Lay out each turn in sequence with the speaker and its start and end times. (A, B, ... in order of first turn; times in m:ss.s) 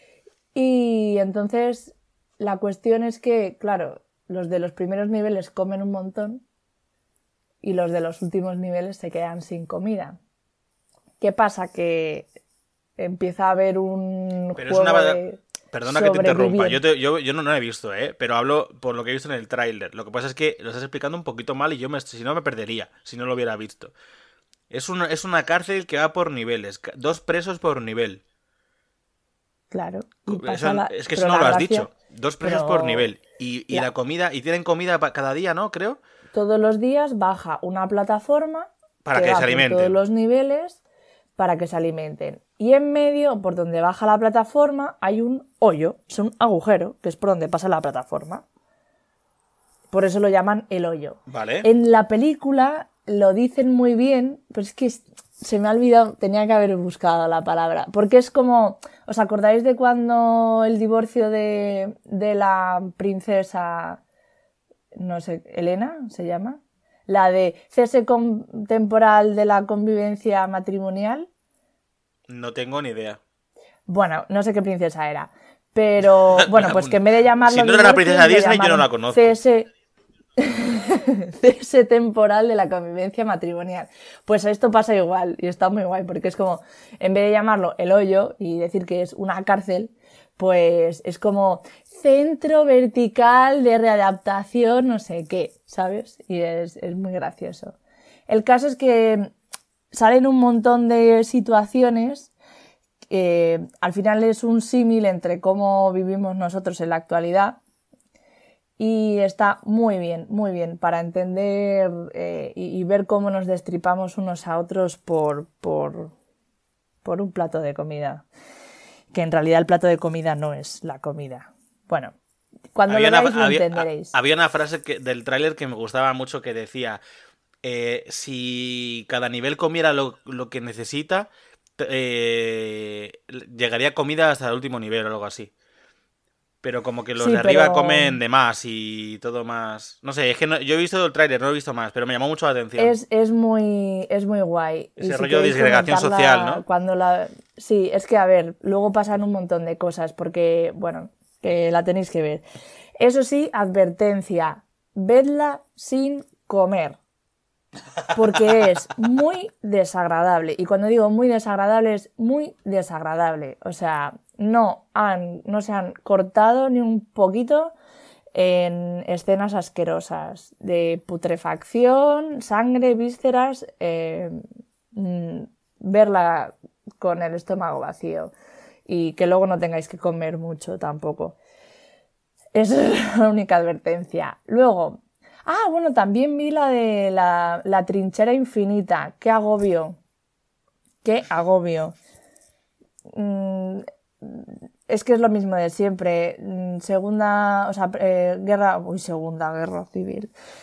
0:00.5-0:06.4 A
0:07.6-0:10.2 A
0:11.2-0:12.3 A
0:13.0-0:16.8 A
0:14.6-0:23.9 B
0:24.7-0:28.2 B
0:29.7-0:31.9 A
0:30.3-0:36.0 B
0:32.4-0:33.1 A
0:36.3-0:40.8 A
0:39.0-0:40.0 B
0:41.4-0:48.4 A
0:49.9-1:04.0 A
0:51.3-0:51.7 B
1:04.9-1:11.3 A
1:12.3-1:13.2 B
1:13.9-1:19.7 A
1:16.4-1:19.4 B
1:20.4-1:37.8 A
1:38.3-1:39.3 A
1:39.9-1:42.3 A
1:43.1-1:47.6 A
1:48.8-1:56.1 A
1:57.0-1:58.2 A
1:59.1-2:02.1 A
2:02.7-2:04.1 A
2:02.9-2:07.0 B
2:07.6-2:15.5 B
2:16.6-2:23.0 B
2:17.2-2:18.2 A
2:22.8-2:32.4 A
2:25.0-2:26.6 B
2:33.0-2:37.0 A
2:38.1-2:47.8 A
2:48.3-2:54.4 A
2:54.9-2:58.3 A
2:58.9-3:01.4 A
3:02.5-3:10.0 A
3:11.0-3:11.9 A
3:13.1-3:20.3 A